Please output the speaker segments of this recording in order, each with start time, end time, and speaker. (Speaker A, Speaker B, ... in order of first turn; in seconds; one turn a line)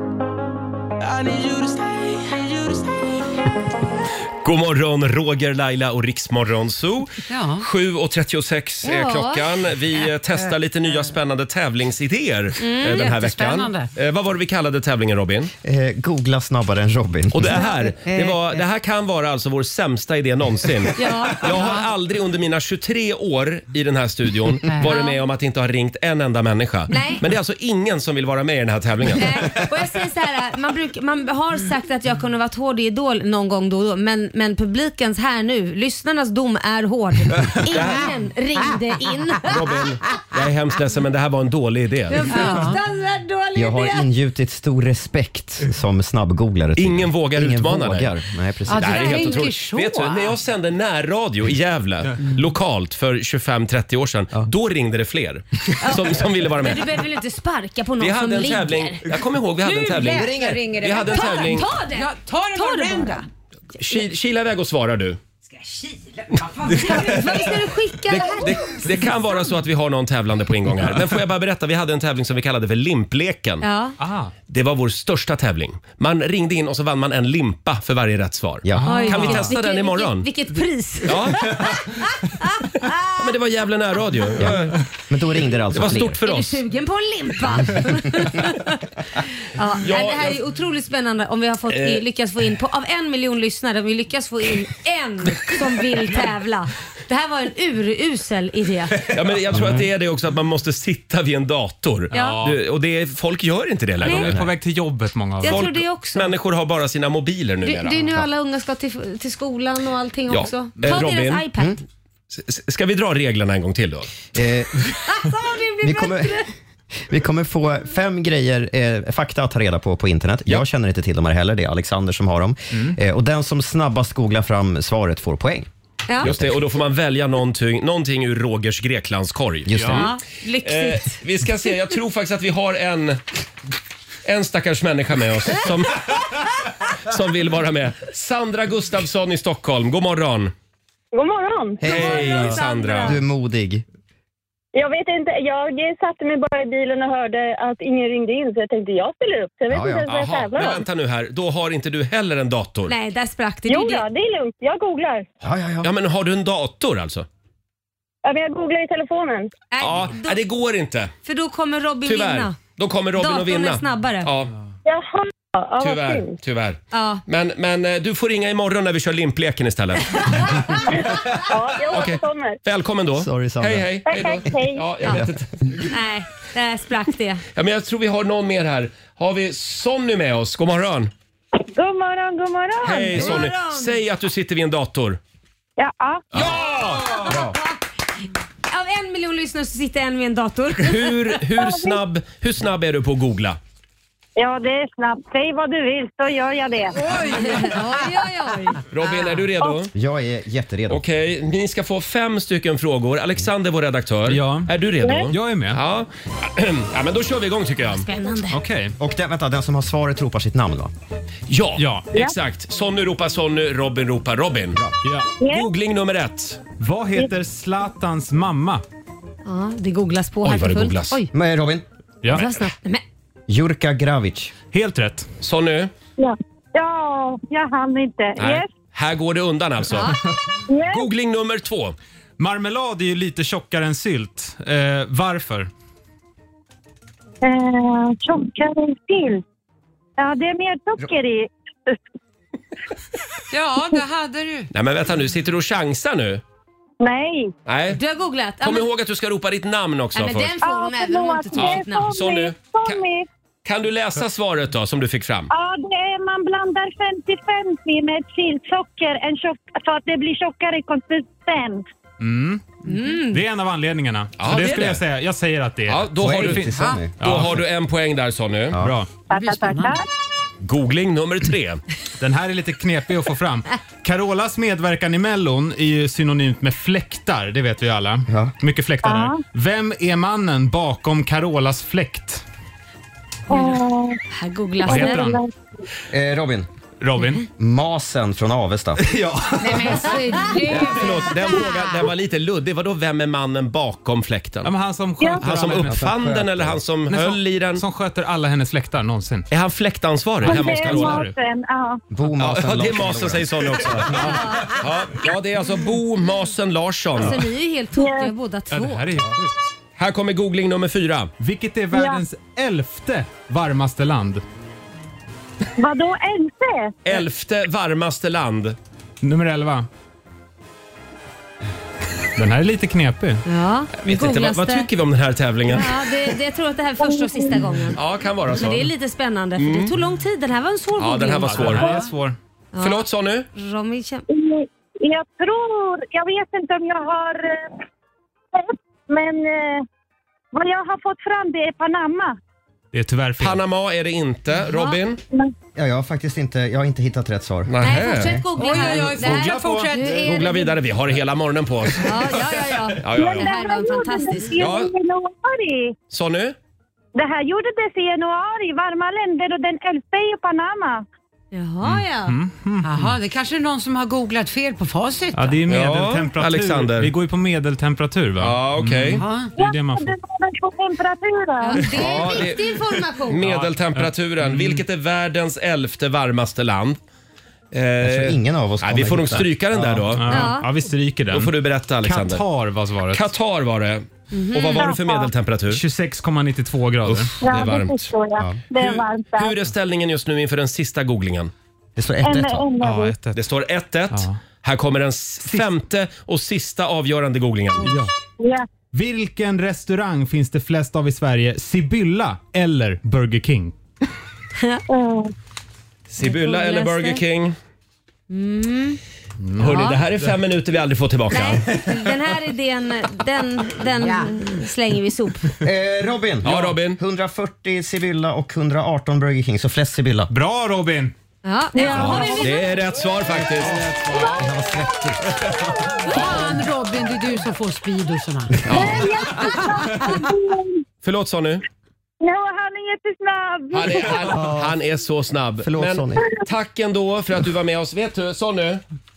Speaker A: 4.4-15.5
Speaker B: 7.3-7.7
Speaker C: 8.8-9.4
Speaker C: 12.6-13.1
Speaker B: 12.9-13.9
Speaker D: 15.6-18.4
Speaker A: 17.3-29.5
Speaker C: 21.0-21.5
Speaker C: 24.8-25.2
Speaker C: 26.9-27.2
Speaker C: 29.2-39.5
Speaker A: 37.7-38.1
Speaker A: 39.5-42.5
Speaker C: 42.1-44.1
Speaker B: 42.3-42.8
Speaker D: 43.6-49.2
Speaker A: 46.8-48.1
Speaker B: 48.7-50.4
Speaker A: 48.7-56.9
Speaker C: 55.8-59.0
Speaker A: 58.0-61.7
Speaker B: 59.6-63.3
Speaker C: 61.1-63.3
Speaker A: 63.8-65.2
Speaker B: 65.5-67.5
Speaker C: 66.7-68.7
Speaker A: 68.1-73.7
Speaker C: 73.6-74.0
Speaker E: 74.0-74.3
Speaker A: 74.5-80.3
Speaker E: 78.8-79.5
Speaker C: 78.8-83.1
Speaker A: 81.0-81.5
Speaker A: 83.2-84.8
Speaker D: 84.4-86.2
Speaker A: 85.7-86.6
Speaker C: 86.2-88.8
Speaker C: 89.5-99.0
Speaker A: 89.8-90.4
Speaker A: 91.7-92.0
Speaker A: 99.1-104.4
Speaker D: 99.5-99.9
Speaker E: 102.1-102.6
Speaker C: 102.1-102.4
Speaker C: 104.0-104.3
Speaker E: 104.1-105.8
Speaker C: 105.4-106.3
Speaker A: 105.5-108.0
Speaker C: 107.6-111.8
Speaker A: 110.3-111.5
Speaker A: 112.3-114.1
Speaker D: 114.3-114.9
Speaker C: 115.0-116.5
Speaker D: 115.8-125.7
Speaker D: 126.2-126.6
Speaker A: 126.2-130.1
Speaker D: 129.7-130.0
Speaker E: 129.8-130.1
Speaker C: 129.9-131.2
Speaker A: 130.6-133.2
Speaker A: 134.2-136.3
Speaker A: 137.1-140.5
Speaker F: 141.1-141.9
Speaker A: 141.8-143.2
Speaker D: 141.8-143.8
Speaker C: 141.9-143.2
Speaker F: 144.8-150.8
Speaker D: 149.7-150.1
Speaker A: 150.1-152.9
Speaker C: 152.9-154.1
Speaker F: 153.7-155.3
Speaker D: 155.4-155.9
Speaker A: 155.8-157.3
Speaker F: 158.2-159.5
Speaker C: 159.7-160.4
Speaker A: 159.8-161.1
Speaker C: 161.2-162.6
Speaker A: 162.1-164.5
Speaker C: 163.2-164.3
Speaker F: 164.9-166.3
Speaker A: 165.8-170.5
Speaker C: 166.9-167.2
Speaker F: 170.8-172.6
Speaker A: 171.9-175.5
Speaker D: 173.2-174.0
Speaker F: 174.1-174.8
Speaker D: 175.1-175.3
Speaker C: 175.9-177.4
Speaker A: 177.6-181.1
Speaker F: 181.6-183.4
Speaker A: 182.8-185.2
Speaker C: 183.1-183.9
Speaker F: 185.8-186.2
Speaker A: 186.3-187.2
Speaker C: 186.4-187.6
Speaker D: 187.3-187.6
Speaker C: 188.7-191.3
Speaker A: 190.8-193.6
Speaker F: 191.6-192.0
Speaker F: 194.4-197.1
Speaker B: 197.1-197.7
Speaker C: 197.3-198.8
Speaker A: 198.9-199.9
Speaker F: 199.6-199.9
Speaker D: 199.9-201.0
Speaker A: 200.9-208.1
Speaker E: 204.3-204.7
Speaker F: 205.0-205.3
Speaker E: 205.3-205.8
Speaker C: 207.9-208.6
Speaker E: 208.5-208.9
Speaker D: 209.0-210.9
Speaker A: 211.5-214.8
Speaker E: 211.8-212.1
Speaker E: 215.0-215.3
Speaker F: 215.4-215.7
Speaker A: 215.4-216.6
Speaker E: 216.8-218.8
Speaker C: 219.4-221.3
Speaker A: 220.4-221.2
Speaker D: 221.3-221.8
Speaker E: 222.2-222.5
Speaker C: 222.3-223.0
Speaker D: 223.5-224.5
Speaker E: 224.7-225.3
Speaker A: 225.4-225.9
Speaker F: 226.2-228.7
Speaker A: 228.4-230.2
Speaker C: 229.9-230.2
Speaker F: 230.7-231.1
Speaker A: 230.9-232.0
Speaker E: 232.4-235.7
Speaker F: 237.4-239.4
Speaker F: 240.2-242.0
Speaker B: 243.5-244.7
Speaker A: 244.7-246.4
Speaker F: 247.0-247.5
Speaker A: 247.7-248.0
Speaker C: 247.9-248.9
Speaker A: 248.6-250.5
Speaker C: 250.2-252.1
Speaker F: 250.6-253.3
Speaker A: 251.6-253.0
Speaker A: 253.7-255.5
Speaker F: 255.5-261.9
Speaker E: 262.2-262.6
Speaker C: 262.9-263.4
Speaker E: 263.3-267.6
Speaker A: 264.4-265.0
Speaker A: 265.9-268.8
Speaker D: 266.2-267.6
Speaker B: 266.8-267.0
Speaker E: 268.8-269.1
Speaker B: 269.3-270.0
Speaker F: 269.3-270.0
Speaker A: 270.6-271.8
Speaker E: 272.2-282.4
Speaker D: 278.3-278.5
Speaker F: 279.0-279.4
Speaker F: 283.5-284.2
Speaker C: 284.3-285.3
Speaker E: 284.9-285.4
Speaker F: 284.9-285.5
Speaker D: 286.1-286.7
Speaker E: 287.0-287.5
Speaker D: 287.6-289.0
Speaker E: 289.0-290.2
Speaker B: 289.6-291.3
Speaker A: 290.7-294.7
Speaker E: 294.6-296.1
Speaker F: 295.2-295.4
Speaker A: 295.4-297.8
Speaker D: 295.9-296.8
Speaker E: 297.1-299.5
Speaker A: 299.5-301.2
Speaker E: 300.4-301.4
Speaker F: 300.4-302.0
Speaker D: 302.1-304.3
Speaker A: 302.4-307.4
Speaker C: 304.2-304.7
Speaker C: 307.2-309.1
Speaker F: 308.0-308.3
Speaker E: 308.7-309.5
Speaker A: 310.0-311.3
Speaker E: 311.4-314.4
Speaker F: 311.9-312.2
Speaker F: 315.8-316.9
Speaker A: 317.1-318.8
Speaker E: 319.2-319.9
Speaker E: 322.4-323.4
Speaker C: 323.5-324.9
Speaker A: 324.1-326.0
Speaker C: 325.7-328.0
Speaker F: 327.0-327.7
Speaker A: 327.9-328.9
Speaker C: 328.5-331.9
Speaker A: 329.6-329.9
Speaker A: 331.0-331.9
Speaker E: 331.5-332.4
Speaker C: 332.7-333.0
Speaker A: 332.8-333.5
Speaker C: 333.6-334.3
Speaker F: 334.3-337.8
Speaker F: 338.5-339.9
Speaker F: 340.5-342.4
Speaker E: 342.9-343.6
Speaker A: 343.4-345.2
Speaker C: 344.7-345.0
Speaker D: 345.8-347.7
Speaker A: 347.7-348.4
Speaker C: 347.8-350.7
Speaker B: 348.6-350.6
Speaker E: 349.0-349.9
Speaker A: 350.2-352.4
Speaker C: 352.0-354.7
Speaker A: 353.0-353.5
Speaker F: 353.1-355.9
Speaker A: 354.6-354.9
Speaker A: 356.1-356.6
Speaker F: 357.1-361.1
Speaker C: 361.5-362.4
Speaker E: 361.8-363.2
Speaker B: 362.8-365.7
Speaker E: 365.3-370.1
Speaker A: 365.7-367.1
Speaker A: 368.4-369.2
Speaker B: 369.1-369.5
Speaker F: 369.6-372.0
Speaker C: 371.6-373.5
Speaker E: 371.9-372.4
Speaker A: 371.9-377.0
Speaker E: 373.4-374.8
Speaker A: 377.7-380.5
Speaker D: 378.0-380.1
Speaker E: 380.1-383.3
Speaker C: 380.3-380.7
Speaker A: 381.3-382.4
Speaker A: 383.1-385.8
Speaker C: 384.3-384.9
Speaker F: 384.7-385.3
Speaker E: 385.7-387.3
Speaker A: 387.1-388.1
Speaker F: 387.4-389.6
Speaker A: 388.8-391.5
Speaker D: 392.0-392.7
Speaker F: 392.2-393.2
Speaker E: 392.8-393.4
Speaker A: 393.4-397.9
Speaker E: 394.1-394.4
Speaker E: 395.4-395.7
Speaker E: 397.8-398.1
Speaker F: 398.4-398.7
Speaker E: 398.9-403.8
Speaker F: 404.9-405.3
Speaker A: 406.1-407.6
Speaker C: 406.2-407.2
Speaker C: 408.3-409.0
Speaker E: 409.4-410.3
Speaker A: 409.6-411.6
Speaker C: 409.6-410.0
Speaker C: 411.3-415.5
Speaker B: 414.0-414.4
Speaker D: 415.6-420.3
Speaker A: 416.4-417.0
Speaker E: 420.3-421.1
Speaker C: 421.4-422.5
Speaker F: 421.7-422.6
Speaker A: 421.9-423.9
Speaker E: 423.5-424.4
Speaker D: 424.2-425.5
Speaker B: 426.1-428.7
Speaker A: 428.7-429.1
Speaker F: 428.7-430.8
Speaker A: 431.0-431.6
Speaker F: 432.2-434.3
Speaker A: 433.7-438.8
Speaker D: 434.3-434.7
Speaker D: 435.6-436.2